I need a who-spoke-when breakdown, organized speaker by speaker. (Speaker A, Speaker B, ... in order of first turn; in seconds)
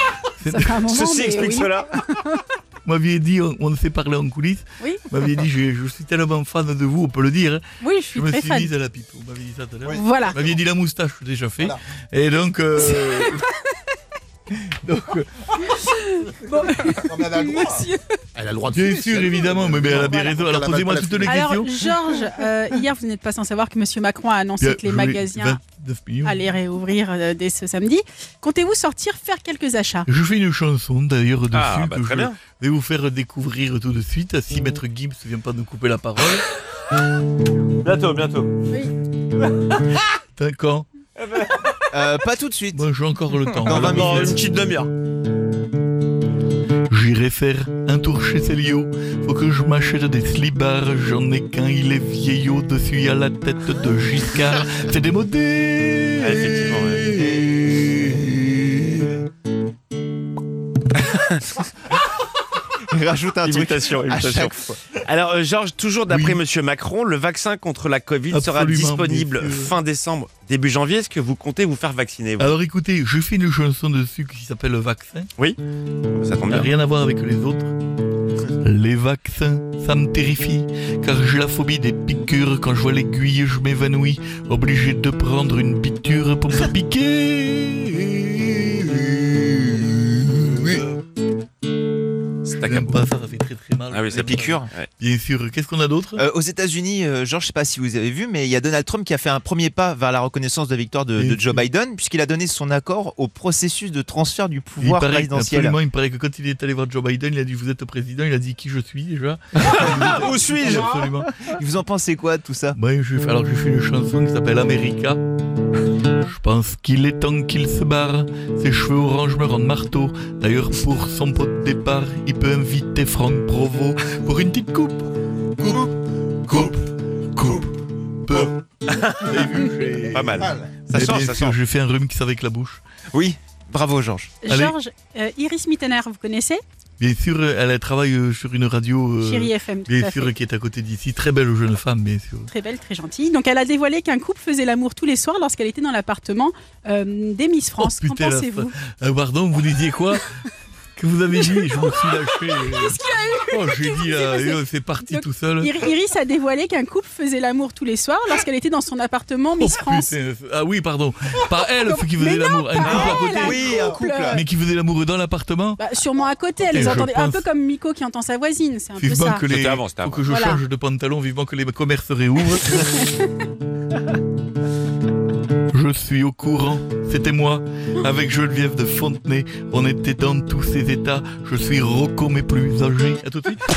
Speaker A: 0.4-0.9, 2.8-13.5, 14.5-15.8, 18.7-21.7, 24.6-26.4, 30.1-36.4, 40.4-40.9, 42.7-44.4, 46.9-58.6, 66.1-66.4, 68.3-69.7, 72.4-75.3, 76.4-77.7, 78.6-90.7, 92.6-96.2, 101.2-101.7, 104.8-111.3, 112.7-115.2, 116.2-125.9, 126.5-126.8, 127.3-127.7, 128.2-128.5, 129.2-132.8, 134.4-134.7, 137.0-142.5, 147.8-150.3, 151.0-153.0, 153.5-155.7, 159.6-163.7, 164.3-165.8, 166.7-167.4, 169.0-172.8, 175.7-183.6
Speaker B: 0.5-2.4, 7.8-8.7, 9.9-10.4, 15.6-18.2, 21.2-25.6, 26.2-30.1, 134.4-136.6, 139.2-140.3, 142.5-148.7, 151.5-160.1, 161.7-164.4, 165.8-169.4, 170.2-170.6, 172.7-173.3
Speaker C: 0.9-1.9, 31.5-32.4, 37.8-38.5, 39.8-40.1, 41.2-41.7, 43.6-44.9, 56.2-57.1, 63.4-72.5, 76.1-76.7, 92.4-93.0, 93.9-94.9, 109.6-111.5, 130.1-131.6, 162.8-163.2, 169.4-170.2
Speaker D: 16.9-21.4, 130.4-130.8
Speaker E: 41.9-42.8, 43.6-44.4, 62.9-64.8, 94.1-94.7, 96.2-105.8, 111.4-112.8, 133.1-134.3, 163.0-164.4